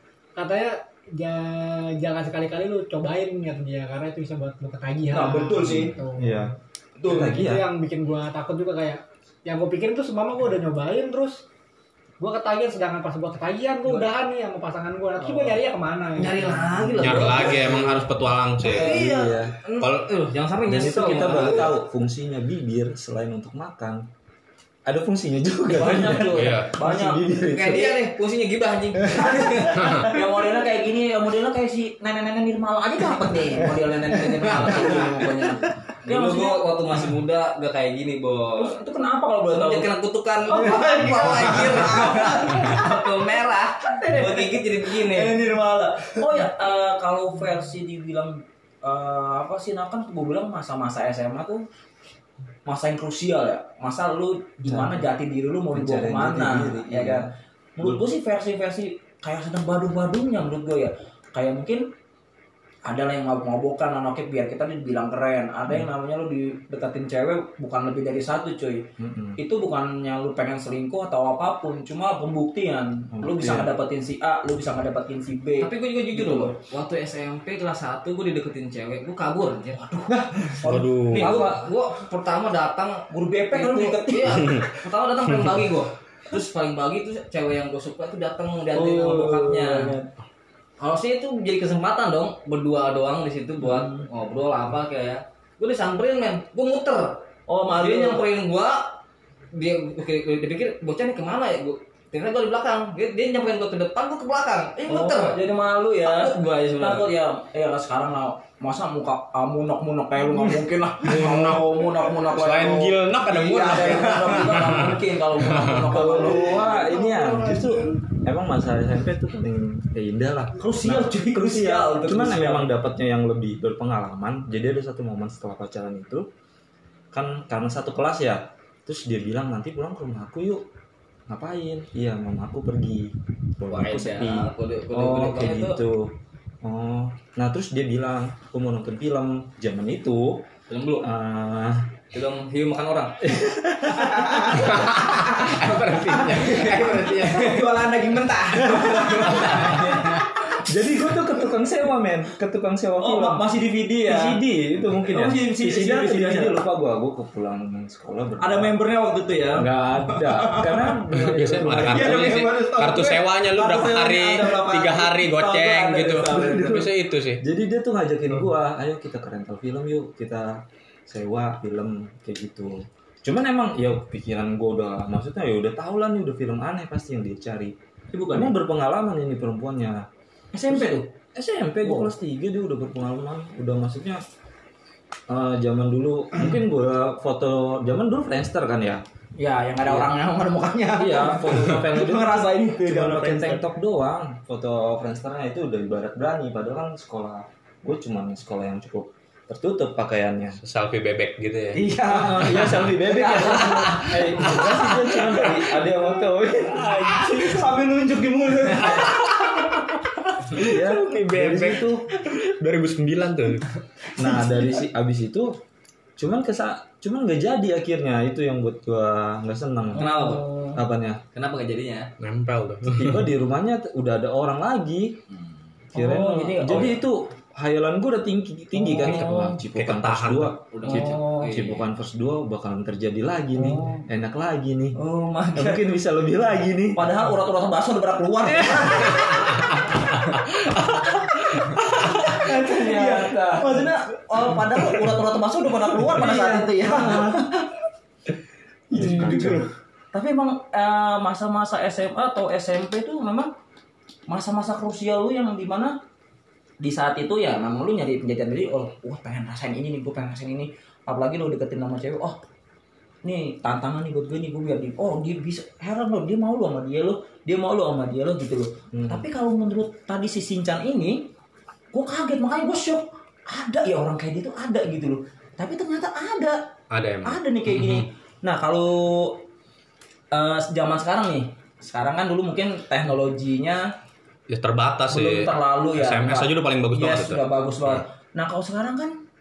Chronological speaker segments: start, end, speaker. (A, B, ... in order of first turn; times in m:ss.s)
0:00.4-0:06.5 A
0:05.1-0:06.0 B
0:05.6-0:07.7 C
0:07.1-0:11.4 A
0:12.2-0:17.3 A
0:15.3-0:15.6 D
0:16.1-0:17.8 D
0:17.0-0:19.0 E
0:17.4-0:18.0 C
0:18.7-0:21.7 D
0:18.7-0:19.1 B
0:18.8-0:19.6 C
0:19.8-0:20.2 E
0:20.6-0:24.0 C
0:24.9-0:28.0 C
0:25.7-0:28.0 B
0:26.2-0:26.7 E
0:27.4-0:29.8 D
0:29.0-0:29.4 C
0:29.1-0:36.6 B
0:29.8-0:30.1 E
0:34.5-0:38.8 D
0:38.6-0:39.9 B
0:39.5-0:45.4 D
0:40.5-0:42.9 B
0:44.0-0:51.6 B
0:52.7-1:01.9 B
0:54.7-0:55.1 C
0:55.7-0:57.3 C
1:02.8-1:08.9 B
1:09.0-1:09.4 C
1:09.4-1:16.5 B
1:13.1-1:13.7 C
1:15.6-1:20.1 D
1:20.0-1:21.6 B
1:20.6-1:21.5 E
1:21.1-1:29.9 D
1:23.1-1:24.6 B
1:28.7-1:30.1 C
1:30.8-1:37.2 D
1:33.7-1:34.0 B
1:37.5-1:38.2 B
1:37.8-1:39.0 D
1:39.5-1:45.4 D
1:44.9-1:56.7 B
1:46.0-1:47.1 D
1:51.0-1:51.7 E
1:51.1-1:51.6 C
1:52.3-1:55.8 E
1:55.8-2:06.3 C
1:56.4-1:58.0 A
2:00.6-2:02.7 B
2:07.1-2:10.7 C
2:11.3-2:20.5 C
2:13.7-2:15.8 D
2:20.7-2:21.1 D
2:21.0-2:22.0 C
2:22.1-2:23.2 D
2:23.2-2:24.8 C
2:24.0-2:30.0 B
2:24.6-2:27.4 E
2:26.3-2:27.7 D
2:28.6-2:29.1 C
2:29.2-2:30.3 D
2:29.5-2:30.0 E
2:30.6-2:33.4 C
2:33.0-2:34.4 B
2:34.0-2:38.7 C
2:35.1-2:36.6 B
2:38.4-2:41.1 B
2:39.6-2:42.5 C
2:41.2-2:47.4 E
2:41.9-2:46.9 B
2:46.3-2:57.8 C
2:58.1-2:58.5 B
2:58.3-3:00.1 C
3:00.5-3:01.1 B
3:00.7-3:04.2 C
3:01.8-3:02.1 B
3:05.3-3:09.0 C
3:09.4-3:13.6 B
3:09.8-3:10.1 C
3:10.9-3:20.6 C
3:20.6-3:21.8 E
3:21.8-3:24.6 B
3:21.8-3:27.7 C
3:22.4-3:22.8 E
3:24.4-3:25.6 E
3:26.7-3:29.2 B
3:28.9-3:29.8 E
3:30.5-3:33.7 E
3:30.5-3:32.1 C
3:34.2-3:35.6 C
3:36.2-3:40.2 C
3:40.0-3:40.7 D
3:40.0-3:40.8 B
3:40.7-3:41.2 C
3:41.3-3:42.1 D
3:42.2-3:43.2 E
3:42.9-3:45.2 C
3:45.9-3:47.0 B
3:45.9-3:55.0 C
3:48.7-3:49.6 B
3:49.7-3:50.6 E
3:50.7-3:51.9 D
3:50.8-3:51.6 B
3:53.6-3:54.0 B
3:55.0-3:55.8 B
3:55.6-3:57.2 C
3:56.9-3:59.7 B
4:00.3-4:00.9 E
4:01.8-4:07.4 B
4:02.0-4:04.0 C
4:06.0-4:07.5 C
4:08.9-4:09.7 C
4:09.0-4:13.5 B
4:09.0-4:09.6 A
4:14.3-4:16.0 B
4:16.8-4:22.4 B
4:23.2-4:31.3 B
4:28.9-4:29.3 C
4:31.9-4:36.6 B
4:36.9-4:38.0 E
4:37.2-4:39.4 B
4:40.3-4:43.9 B
4:44.5-4:48.0 E
4:45.1-4:49.1 B